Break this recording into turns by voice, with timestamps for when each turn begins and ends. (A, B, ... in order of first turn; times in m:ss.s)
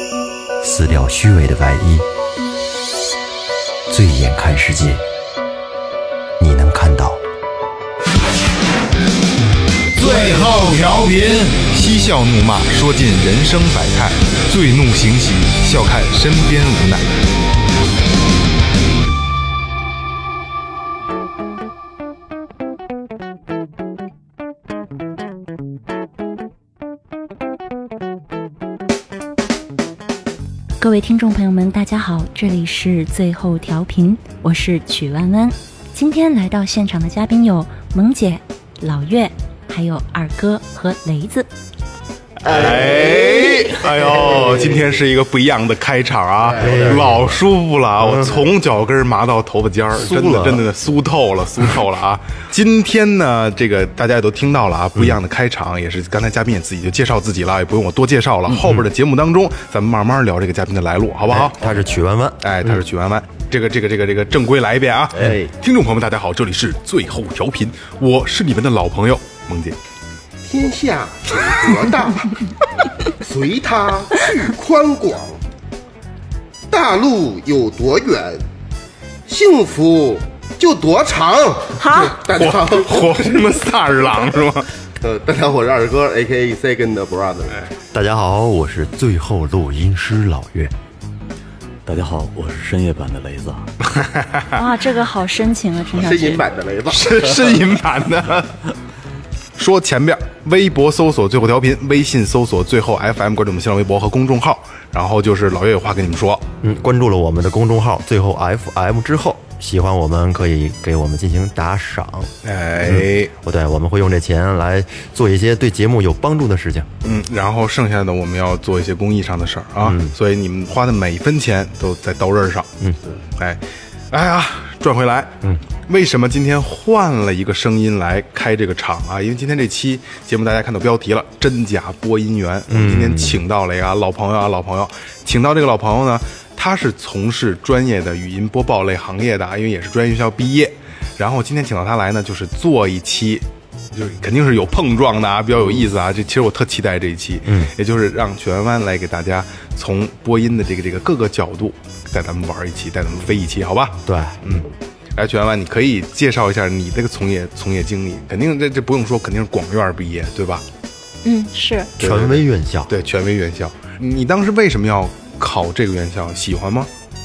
0:00.6-0:02.1 A
0:03.9-0:05.0 A
0:06.4-0:07.2 A
0:10.0-0:17.2 B
0:30.8-0:41.5 C
0:42.4-1:01.6 B
0:42.5-0:43.4 D
0:44.1-0:45.0 D
0:46.4-0:47.0 D
0:46.6-0:47.4 A
0:48.0-0:48.4 A
0:50.0-0:50.7 A
1:01.3-1:02.4 A
1:02.4-1:09.8 B
1:05.1-1:05.5 E
1:10.4-1:12.4 D
1:13.1-1:15.4 D
1:16.7-1:18.4 D
1:19.3-1:23.5 D
1:21.8-1:22.2 C
1:22.3-1:24.7 B
1:25.0-1:27.6 D
1:27.9-1:30.7 A
1:31.9-1:33.7 E
1:34.5-1:36.4 C
1:36.0-1:37.6 D
1:36.9-1:38.6 B
1:39.6-1:46.4 B
1:46.6-1:52.3 A
1:52.4-1:53.3 B
1:52.8-1:56.9 A
1:57.0-2:02.7 B
1:59.8-2:00.1 A
2:03.4-2:05.4 B
2:05.9-2:34.6 B
2:12.7-2:13.4 A
2:27.4-2:27.7 A
2:34.1-2:34.6 A
2:35.2-2:40.6 B
2:41.2-2:41.9 C
2:42.0-2:42.9 A
2:42.0-2:46.9 B